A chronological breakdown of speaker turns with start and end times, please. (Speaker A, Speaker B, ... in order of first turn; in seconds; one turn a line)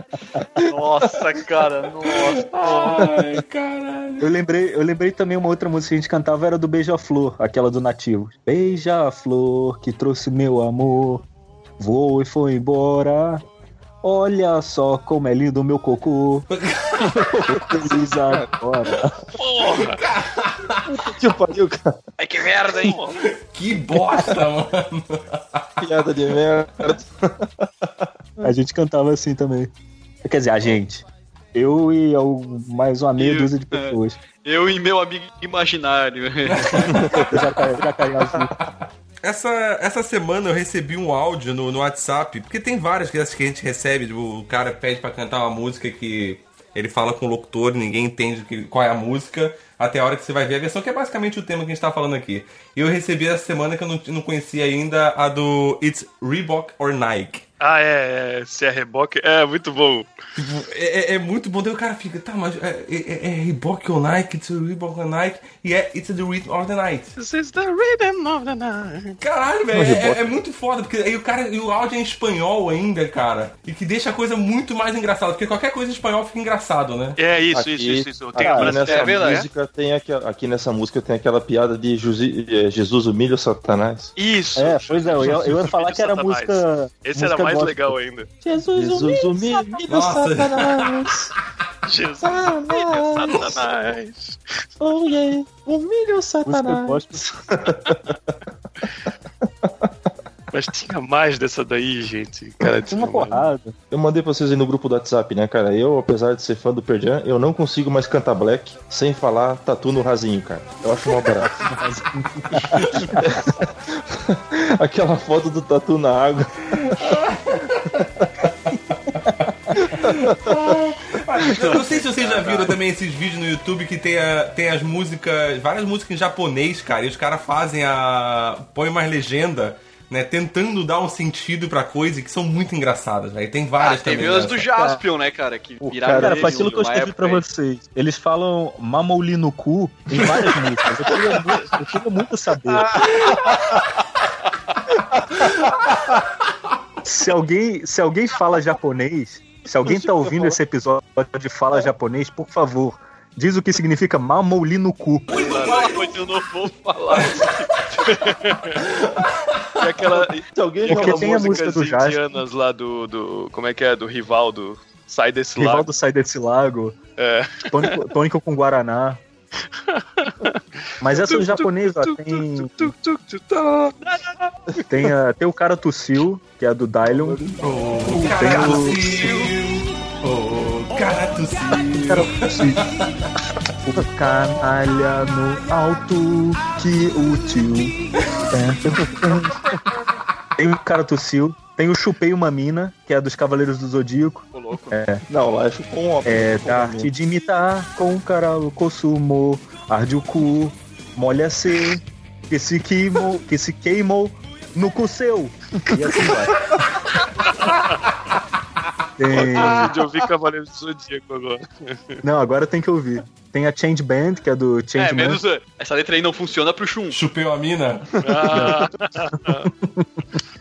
Speaker A: 0.7-3.0
Speaker B: 2.2-4.3
Speaker C: 4.2-11.2
Speaker C: 11.8-13.4
Speaker C: 14.0-16.5
Speaker B: 16.5-17.1
Speaker D: 17.0-18.5
Speaker C: 17.5-19.1
Speaker E: 19.4-20.0
Speaker B: 19.7-20.8
Speaker D: 20.9-22.0
Speaker A: 22.2-23.0
Speaker E: 22.8-23.2
Speaker B: 23.4-25.6
Speaker D: 25.8-28.5
Speaker C: 28.4-29.7
Speaker C: 30.2-34.2
Speaker A: 33.2-36.9
Speaker B: 36.5-36.9
Speaker D: 36.9-37.3
Speaker C: 37.2-38.5
Speaker B: 38.6-57.4
Speaker E: 57.6-60.1
Speaker B: 60.4-67.1
Speaker E: 67.2-69.2
Speaker B: 69.2-77.2
Speaker D: 69.7-70.3
Speaker E: 77.2-79.4
Speaker D: 77.5-84.1
Speaker A: 78.7-79.5
Speaker E: 84.2-88.3
Speaker C: 84.6-89.6
Speaker D: 88.7-91.2
Speaker B: 89.9-91.0
Speaker E: 91.8-94.4
Speaker D: 92.2-93.6
Speaker D: 94.8-98.0
Speaker C: 96.4-97.3
Speaker D: 99.6-99.9
Speaker E: 100.5-103.5
Speaker C: 102.9-103.7
Speaker D: 103.9-111.5
Speaker C: 111.8-113.2
Speaker D: 113.2-117.2
Speaker B: 117.0-118.0
Speaker D: 119.8-120.3
Speaker B: 119.9-134.7
Speaker A: 121.6-122.7
Speaker A: 133.8-137.4
Speaker C: 134.7-135.0
Speaker D: 135.8-136.8
Speaker C: 136.1-143.0
Speaker B: 143.2-143.4
Speaker B: 145.4-146.0
Speaker C: 147.0-155.5
Speaker E: 155.3-155.8
Speaker A: 155.3-157.8
Speaker B: 155.5-156.0
Speaker B: 157.1-158.1
Speaker E: 158.0-158.8
Speaker B: 158.8-159.8
Speaker E: 159.8-165.9
Speaker D: 160.5-161.8
Speaker C: 160.9-162.2
Speaker C: 165.6-166.9
Speaker E: 167.2-168.1
Speaker C: 167.7-169.2
Speaker E: 169.9-174.8
Speaker C: 171.0-172.9
Speaker C: 174.9-177.5
Speaker B: 177.6-183.1
Speaker C: 178.1-179.3
Speaker E: 178.4-179.5
Speaker C: 182.1-182.8
Speaker C: 183.8-187.9
Speaker C: 188.5-189.7
Speaker D: 189.1-189.5
Speaker C: 190.6-195.2
Speaker A: 194.5-195.0
Speaker D: 195.3-197.1
Speaker C: 196.2-206.7
Speaker B: 207.7-207.9
Speaker C: 209.2-209.9
Speaker E: 209.3-212.2
Speaker C: 212.2-215.4
Speaker A: 214.9-217.2
Speaker B: 217.1-218.2
Speaker E: 218.2-219.7
Speaker C: 218.5-218.9
Speaker C: 219.8-220.4